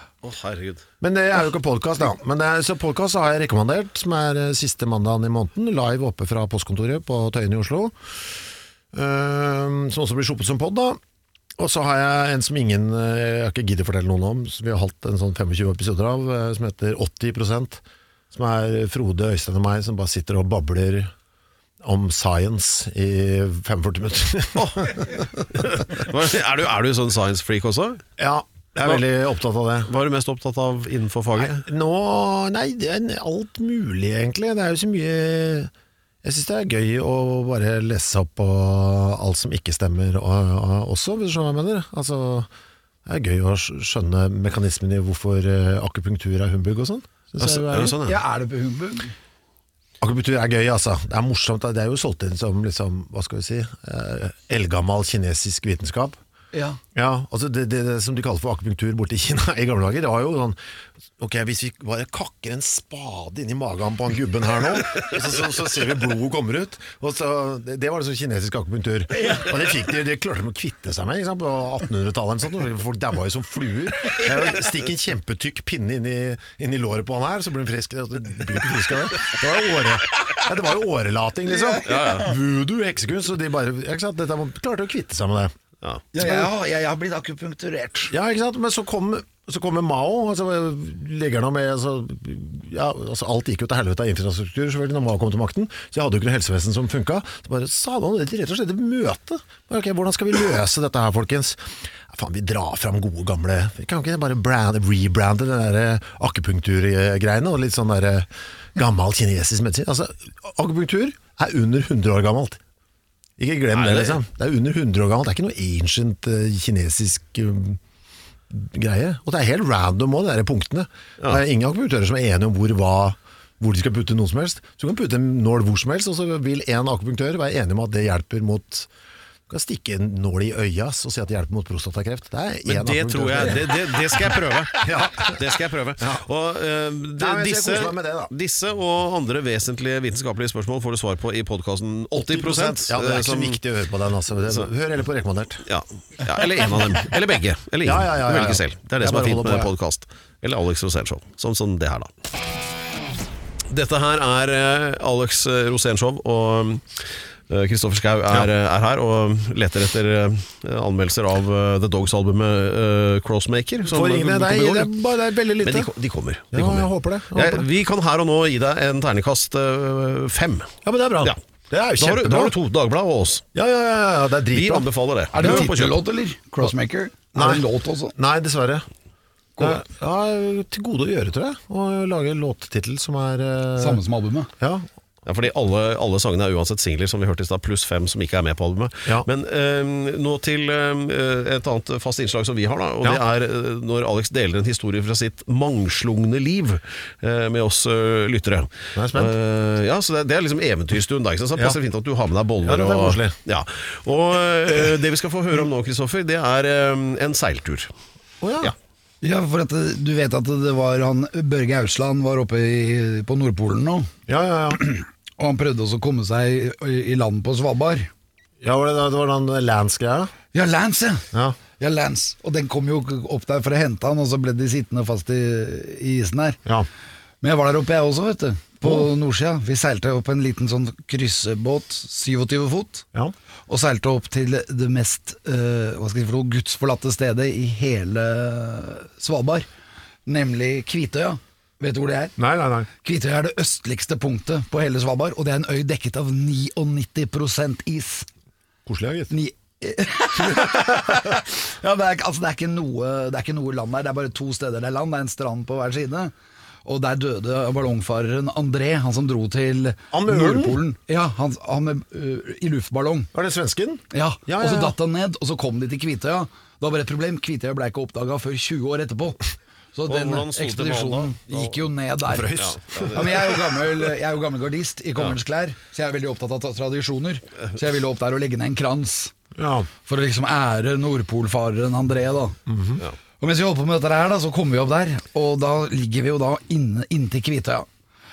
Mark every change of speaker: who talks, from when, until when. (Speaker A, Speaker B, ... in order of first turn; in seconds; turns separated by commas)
Speaker A: 0.2-0.8, Speaker B: 1.0-8.0, Speaker B: 8.9-11.0, Speaker B: 11.6-21.1, Speaker B: 21.8-25.8, Speaker A: 24.6-28.0, Speaker B: 28.2-29.9, Speaker A: 29.9-31.6, Speaker B: 31.4-35.7, Speaker B: 36.2-42.5, Speaker B: 43.1-48.0, Speaker A: 47.4-48.2, Speaker C: 48.0-49.1, Speaker B: 50.0-56.2, Speaker C: 56.5-56.8, Speaker B: 57.0-60.6, Speaker B: 61.2-85.5, Speaker C: 81.5-82.3, Speaker A: 81.9-82.3, Speaker C: 86.1-88.1, Speaker B: 86.2-86.5, Speaker B: 88.1-112.6, Speaker B: 113.4-117.8, Speaker A: 113.7-114.2, Speaker B: 118.5-128.9, Speaker B: 129.5-136.2, Speaker A: 132.7-143.6, Speaker B: 137.2-138.3, Speaker B: 142.2-145.7, Speaker A: 145.7-152.1, Speaker B: 147.8-149.7, Speaker A: 153.7-164.9, Speaker B: 163.8-165.9, Speaker A: 165.6-171.4, Speaker B: 166.5-167.7, Speaker B: 170.8-172.6, Speaker A: 172.0-173.4, Speaker B: 173.5-175.7, Speaker A: 174.5-176.0, Speaker C: 175.3-178.2, Speaker B: 177.3-178.9, Speaker B: 179.6-184.0, Speaker C: 183.8-184.5, Speaker B: 184.6-184.9, Speaker A: 185.3-207.9, Speaker B: 198.9-199.3, Speaker B: 202.7-203.4, Speaker B: 208.4-208.7, Speaker C: 209.2-214.1, Speaker B: 214.3-214.9, Speaker C: 214.8-218.1, Speaker B: 218.6-220.3, Speaker C: 220.5-221.3, Speaker B: 221.3-221.6, Speaker C: 221.8-226.6, Speaker C: 227.4-233.1, Speaker B: 228.8-229.1, Speaker C: 233.7-239.7, Speaker C: 240.3-242.4, Speaker B: 242.4-242.9, Speaker C: 243.0-248.3, Speaker B: 248.9-249.3, Speaker C: 249.3-256.3, Speaker B: 250.6-250.9, Speaker C: 256.9-263.3, Speaker B: 260.1-260.8, Speaker B: 263.3-264.9, Speaker C: 264.1-269.4, Speaker C: 269.9-279.4, Speaker A: 270.1-271.9, Speaker B: 272.3-273.4, Speaker A: 272.6-273.6, Speaker B: 279.6-279.9, Speaker C: 280.1-282.6, Speaker B: 282.7-283.0, Speaker C: 283.4-287.9